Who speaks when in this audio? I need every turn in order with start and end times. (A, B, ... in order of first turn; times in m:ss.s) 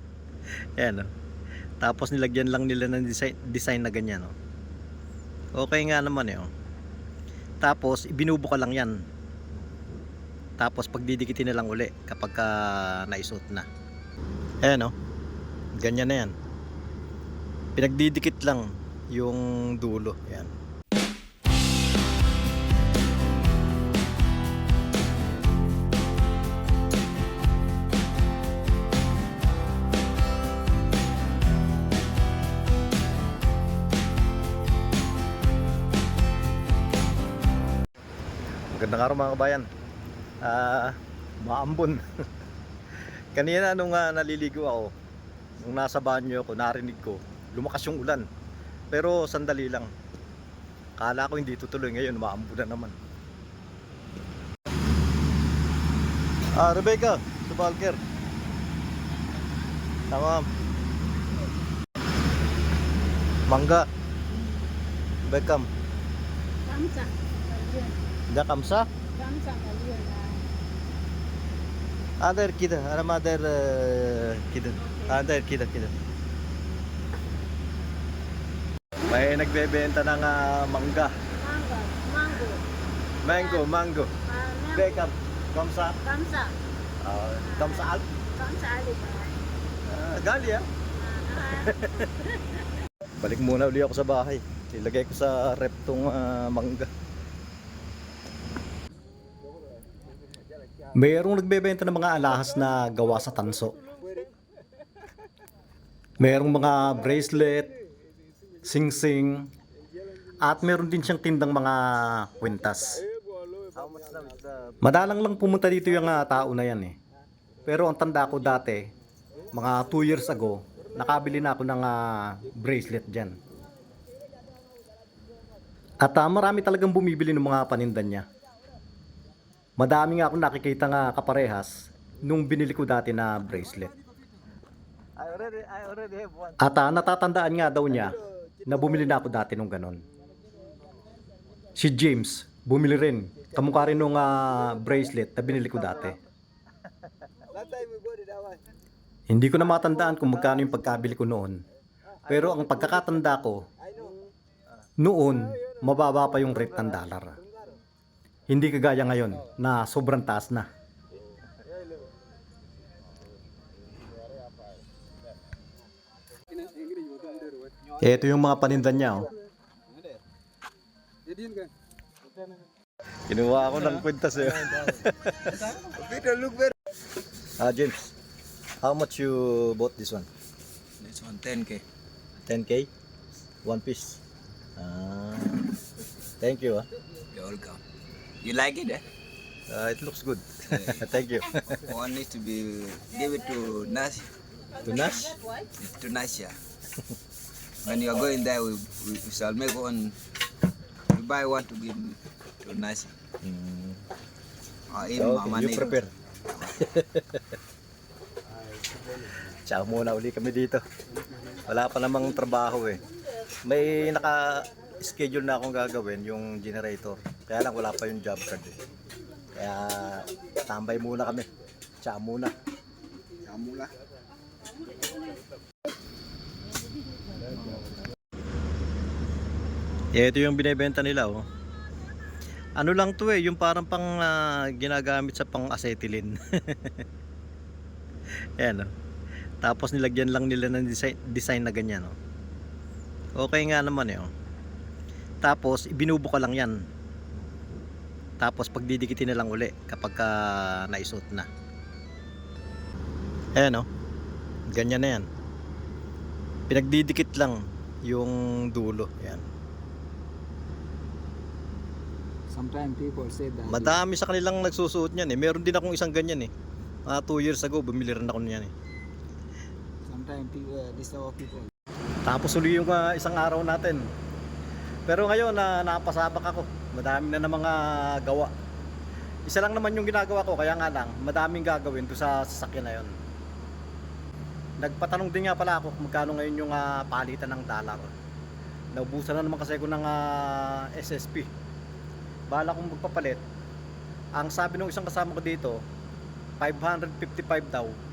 0:00.8-0:01.1 A
0:01.8-0:04.3 A
0:05.6-0:06.5 A
0:07.6-0:09.0 A
0:10.6-0:13.7 A
0:14.6-0:14.9 A
0:15.8-0:16.3 A
0:17.8-0:20.6 A
0:38.7-0:39.7 A
0:40.4-0:42.0 A
0:43.4-0:44.9 A
0:45.6-0:48.2 A
0:48.9-0:49.9 A
0:51.0-0:53.0 A
0:56.6-0:58.0 A
1:00.1-1:00.5 A
1:03.5-1:03.9 A
1:05.3-1:05.7 A
1:06.6-1:08.0 B
1:08.3-1:08.9 A
1:09.1-1:10.5 B
1:12.2-1:15.9 A
1:19.1-1:21.1 A
1:21.3-1:22.7 B
1:23.2-1:24.1 A
1:23.2-1:23.7 B
1:24.2-1:25.1 B
1:24.7-1:26.0 A
1:26.0-1:26.6 B
1:27.0-1:28.0 A
1:27.4-1:29.4 B
1:29.9-1:30.7 A
1:30.9-1:32.6 B
1:31.5-1:32.1 A
1:33.2-1:36.9 A
1:40.9-1:43.8 A
1:46.2-1:47.7 A
1:48.6-1:49.5 A
1:50.4-1:53.0 A
1:53.8-1:54.7 C
1:54.8-1:57.0 A
1:57.7-1:58.9 A
1:59.5-2:03.4 A
2:06.0-2:08.2 A
2:09.8-2:13.9 A
2:15.2-2:20.0 A
2:21.8-2:26.2 A
2:29.3-2:31.6 A
2:32.3-2:33.6 A
2:35.0-2:37.4 A
2:38.5-2:40.7 A
2:48.0-2:49.3 A
2:53.3-2:55.6 A
2:53.8-2:56.8 C
2:57.6-2:58.0 A
2:58.8-3:00.3 A
3:01.0-3:01.8 C
3:02.5-3:02.9 A
3:03.6-3:04.2 A
3:04.8-3:05.7 A
3:06.4-3:06.9 A
3:07.3-3:07.8 C
3:08.4-3:09.0 C
3:09.7-3:11.8 A
3:10.7-3:11.1 C
3:11.7-3:14.3 C
3:14.8-3:15.4 A
3:15.6-3:16.6 C
3:17.8-3:20.2 C
3:21.1-3:23.1 C
3:23.4-3:24.0 A
3:24.9-3:26.9 C
3:25.2-3:26.1 A
3:26.8-3:27.4 A
3:29.5-3:30.8 A
3:31.7-3:33.0 A
3:33.7-3:38.8 A
3:39.6-3:41.5 A
3:42.0-3:42.5 A
3:43.4-3:43.9 C
3:50.2-3:51.4 A
3:52.8-3:57.0 A
3:58.6-3:58.9 A
3:59.6-4:02.2 A
4:03.4-4:04.3 A
4:05.4-4:06.8 A
4:08.4-4:11.5 A
4:13.6-4:13.9 A
4:14.7-4:15.3 A
4:16.7-4:19.4 A
4:22.6-4:23.9 D
4:23.6-4:26.5 A
4:27.1-4:28.7 A
4:30.1-4:31.6 D
4:32.2-4:34.1 A
4:35.1-4:38.5 A
4:39.5-4:43.1 A
4:44.8-4:48.1 A
4:49.0-4:51.5 A
4:52.5-4:53.4 A
4:54.4-4:55.8 A
4:56.6-4:58.0 A